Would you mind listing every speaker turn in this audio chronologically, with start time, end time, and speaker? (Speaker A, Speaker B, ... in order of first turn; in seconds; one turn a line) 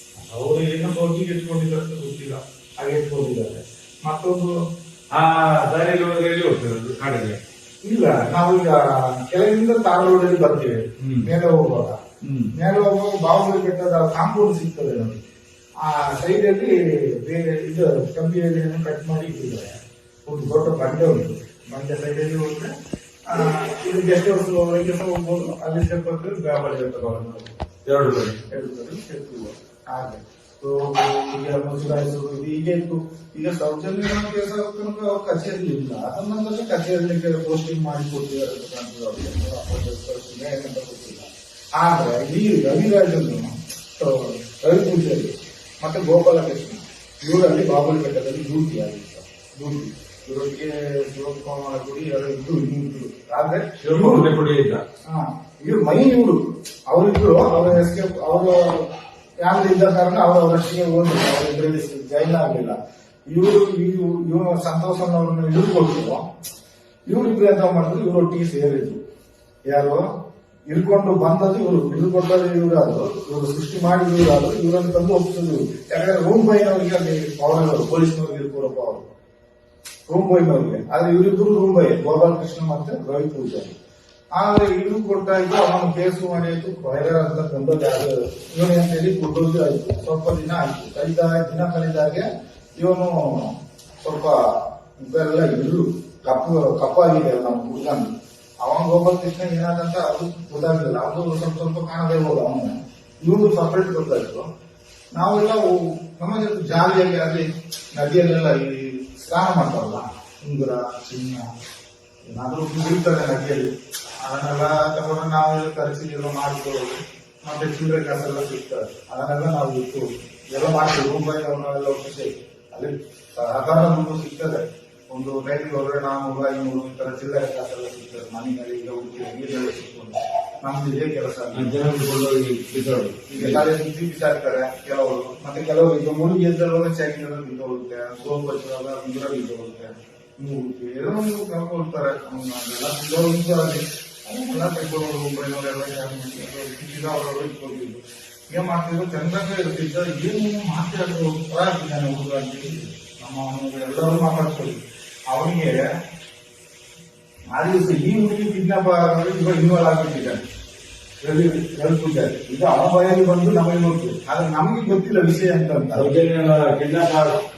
Speaker A: 0.2-4.5
Speaker B: 5.1-7.4
Speaker A: 7.8-12.0
Speaker B: 11.0-11.3
Speaker B: 12.2-12.5
Speaker A: 12.5-15.2
Speaker A: 15.8-22.7
Speaker A: 23.3-27.5
Speaker B: 27.9-28.4
Speaker A: 28.5-54.4
Speaker B: 53.8-54.8
Speaker A: 55.1-58.9
Speaker A: 59.4-66.3
Speaker A: 67.1-69.0
Speaker A: 69.7-70.0
Speaker A: 70.7-79.1
Speaker A: 80.1-83.8
Speaker A: 84.3-94.4
Speaker A: 95.0-98.1
Speaker A: 98.6-104.5
Speaker A: 105.1-111.5
Speaker A: 112.2-113.7
Speaker A: 114.2-131.8
Speaker B: 131.5-133.6
Speaker A: 133.3-155.8
Speaker A: 157.6-160.4
Speaker A: 161.2-166.1
Speaker B: 165.9-167.4